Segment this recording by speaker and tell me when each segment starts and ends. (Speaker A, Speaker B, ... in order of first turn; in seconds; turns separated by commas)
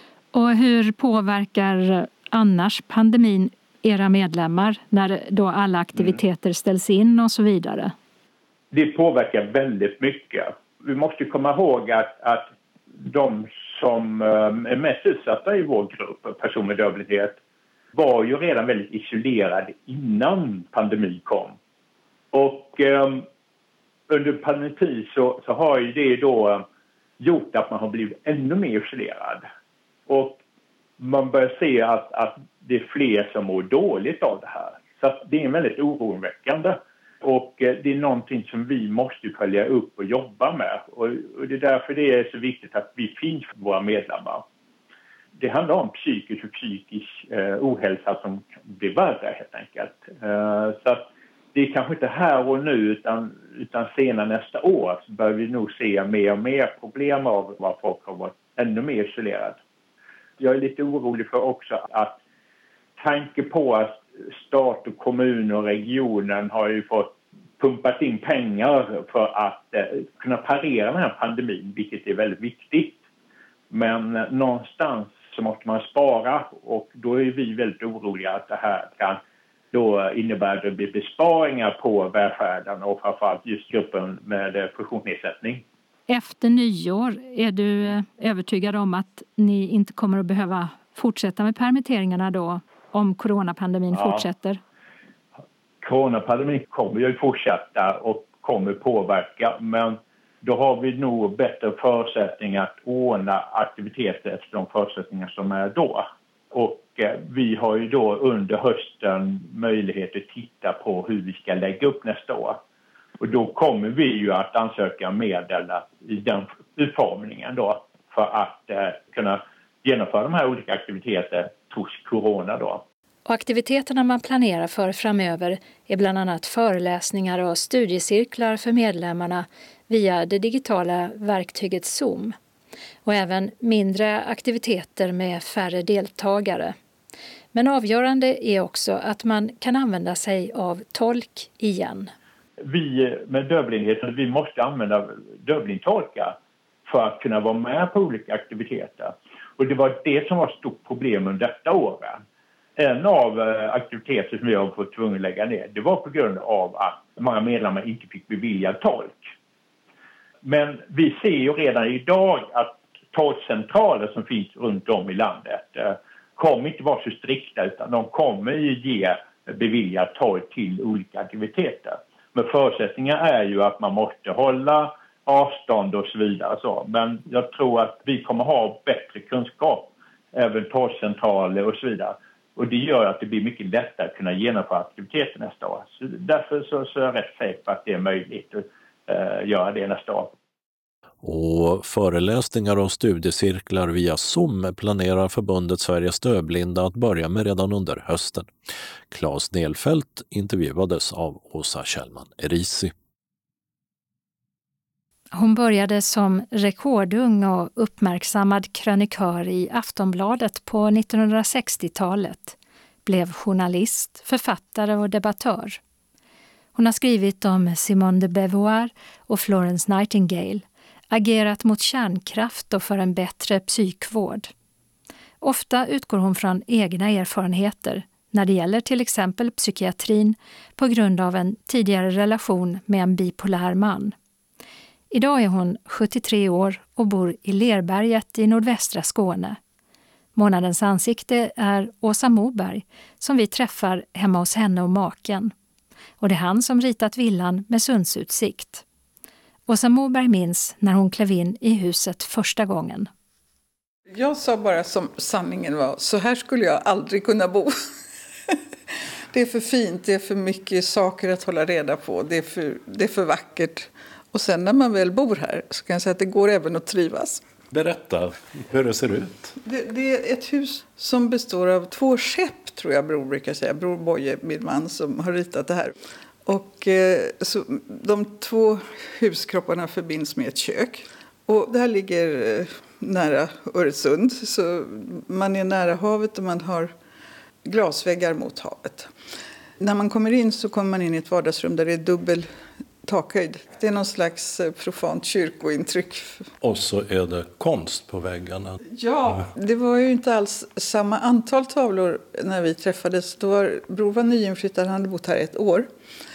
Speaker A: 0.3-7.9, Speaker B: 8.7-17.4, Speaker B: 17.9-21.6, Speaker B: 22.3-23.3, Speaker B: 24.1-26.6, Speaker B: 27.2-29.4, Speaker B: 30.1-30.4, Speaker B: 31.0-44.4, Speaker B: 45.4-59.6, Speaker B: 60.4-62.2, Speaker B: 63.0-73.0, Speaker B: 73.7-79.2, Speaker B: 79.7-85.6, Speaker A: 86.1-94.6, Speaker B: 93.9-94.2, Speaker B: 95.8-112.6, Speaker B: 113.2-122.8, Speaker A: 123.3-132.3, Speaker A: 133.1-136.8, Speaker A: 137.5-142.1, Speaker B: 142.6-152.2, Speaker B: 152.8-159.2, Speaker B: 160.4-190.3, Speaker C: 191.2-198.5, Speaker C: 199.1-202.9, Speaker A: 205.3-215.8, Speaker A: 216.8-224.5, Speaker A: 225.4-234.1, Speaker A: 235.1-239.6, Speaker A: 240.3-245.5, Speaker A: 246.2-248.8, Speaker A: 249.7-253.1, Speaker D: 254.1-257.8, Speaker D: 259.3-267.4, Speaker C: 267.7-269.6, Speaker D: 269.6-275.9, Speaker D: 276.5-286.9, Speaker D: 287.6-289.1, Speaker D: 289.8-292.5, Speaker D: 293.1-296.4, Speaker C: 296.6-298.8, Speaker D: 298.9-305.9